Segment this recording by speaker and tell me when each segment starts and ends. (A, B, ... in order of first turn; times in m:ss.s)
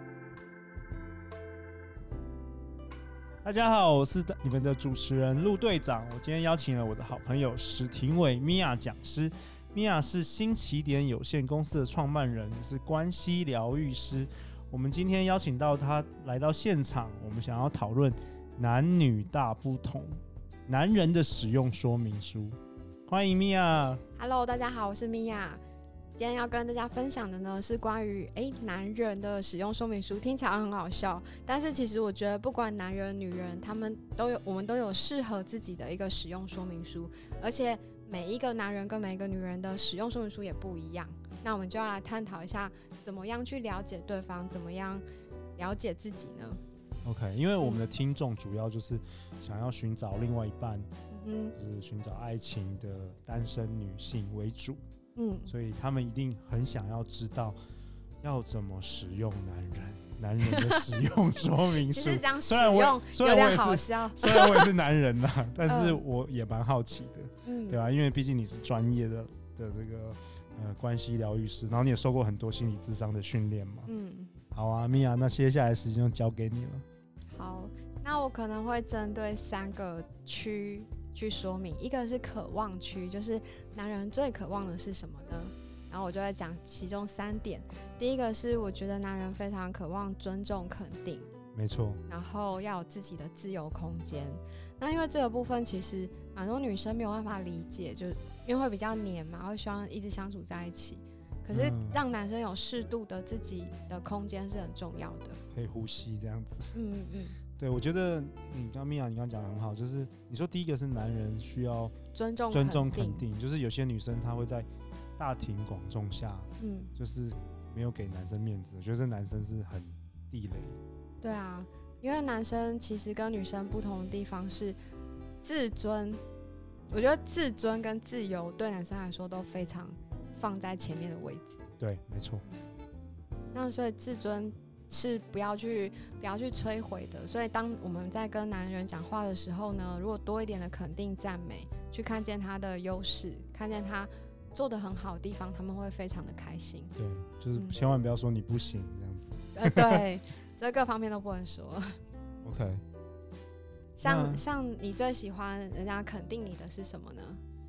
0:03.4-0:24.0 A
0:24.2-0:25.6 B
0:26.2-0:45.0 B
0:45.6-0:46.6 B
0:47.0-0:50.9 A
0:51.1-0:51.6 B
0:51.6-0:54.8 A
0:55.2-0:55.5 B
0:55.5-0:57.6 A
0:58.2-1:13.9 A
1:01.8-1:04.7 B
1:05.6-1:06.0 B
1:07.4-1:07.8 B
1:13.9-1:14.4 B
1:14.5-1:16.8 A
1:17.3-1:31.3 B
1:31.5-1:32.0 A
1:32.1-1:45.4 B
1:41.5-1:42.0 A
1:45.5-1:46.8 A
1:46.7-1:47.4 B
1:47.6-1:52.0 A
1:52.1-1:53.2 B
1:52.5-1:54.7 A
1:55.2-2:00.8 A
1:56.6-1:56.9 B
2:01.2-2:04.8 B
2:05.4-2:06.2 B
2:06.9-2:11.6 B
2:11.8-2:12.4 A
2:13.5-2:26.9 B
2:27.0-2:30.0 A
2:29.6-2:32.0 B
2:32.4-2:32.8 A
2:34.0-2:37.4 B
2:34.0-2:34.4 A